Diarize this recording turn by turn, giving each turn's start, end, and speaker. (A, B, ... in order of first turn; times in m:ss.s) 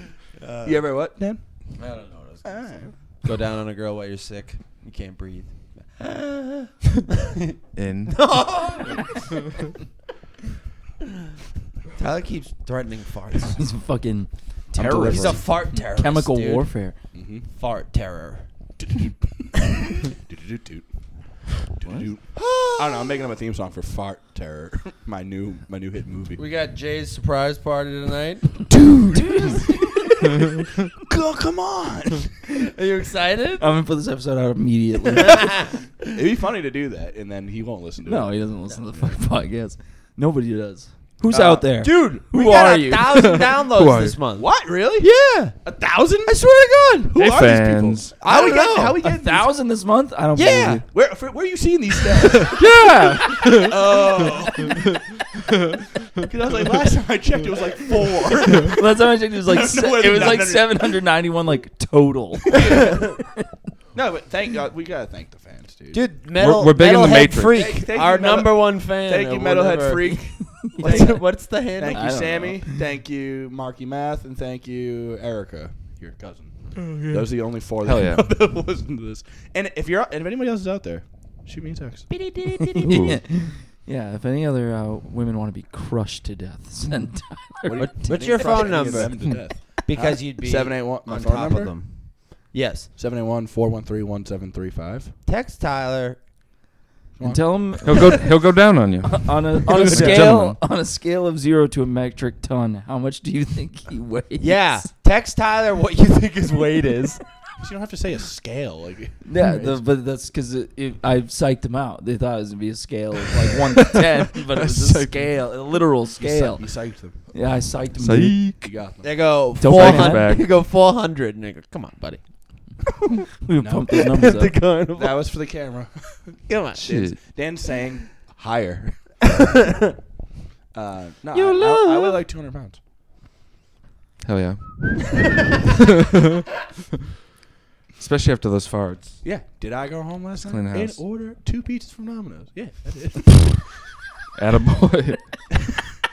0:00.4-0:00.9 A
0:00.6-0:01.7 B
0:01.8-0:07.5 A
0:02.4-0:03.0 B
0:07.8-0:08.6 C
0:08.1-0:09.4 A
0:12.0-0:13.7 A
0:13.6-0:17.0 D
0:14.7-0:15.5 B
0:15.0-0:16.7 A
0:17.1-0:17.4 B
0:17.5-0:18.5 A
0:18.8-0:20.9 B
0:21.7-0:26.4 B
0:22.4-0:23.2 A
0:26.4-0:28.6 A
0:28.7-0:32.3 B
0:29.1-0:29.8 D
0:32.5-0:33.6 A
0:33.6-0:35.6 D
0:35.2-0:35.7 A
0:36.1-0:39.2 B
0:38.0-0:42.7 D
0:41.3-0:43.1 B
0:41.6-0:45.6 A
0:43.1-0:44.2 C
0:44.4-0:45.1 B
0:45.6-0:46.4 B
0:46.2-0:47.1 A
0:47.1-0:49.5 B
0:47.2-0:48.1 C
0:48.2-0:49.0 A
0:49.0-0:50.8 D
0:50.3-0:50.8 A
0:50.8-0:52.6 B
0:52.1-0:52.5 A
0:52.5-0:54.0 C
0:53.6-0:54.9 B
0:56.2-1:01.0 B
0:58.6-1:03.2 D
1:02.5-1:03.0 B
1:03.9-1:06.0 B
1:05.9-1:12.3 A
1:06.4-1:07.7 C
1:07.5-1:22.2 B
1:10.6-1:11.2 D
1:11.9-1:12.8 D
1:16.9-1:17.2 C
1:17.8-1:18.3 C
1:22.1-1:23.2 A
1:22.6-1:29.0 D
1:22.8-1:23.2 C
1:27.6-1:31.8 B
1:27.8-1:32.9 A
1:33.0-1:35.1 B
1:35.2-1:36.2 A
1:37.2-1:37.7 B
1:37.2-1:38.3 D
1:37.8-1:40.6 C
1:39.0-1:44.9 D
1:39.7-1:40.3 A
1:44.4-1:47.2 A
1:47.6-1:49.8 B
1:49.2-1:58.6 D
1:54.6-1:55.3 B
1:54.8-1:55.1 C
1:56.2-1:57.2 B
1:57.9-1:58.6 C
1:58.6-1:59.2 B
1:59.0-2:02.8 A
1:59.6-2:00.3 D
1:59.6-2:00.4 C
2:03.4-2:04.5 D
2:03.6-2:04.1 B
2:04.0-2:05.3 A
2:04.9-2:09.4 B
2:06.5-2:07.1 A
2:06.8-2:07.2 C
2:09.4-2:09.8 A
2:10.7-2:12.8 B
2:11.4-2:12.2 D
2:14.2-2:15.2 C
2:18.0-2:19.2 C
2:19.2-2:23.7 B
2:20.4-2:21.0 C
2:24.3-2:25.4 C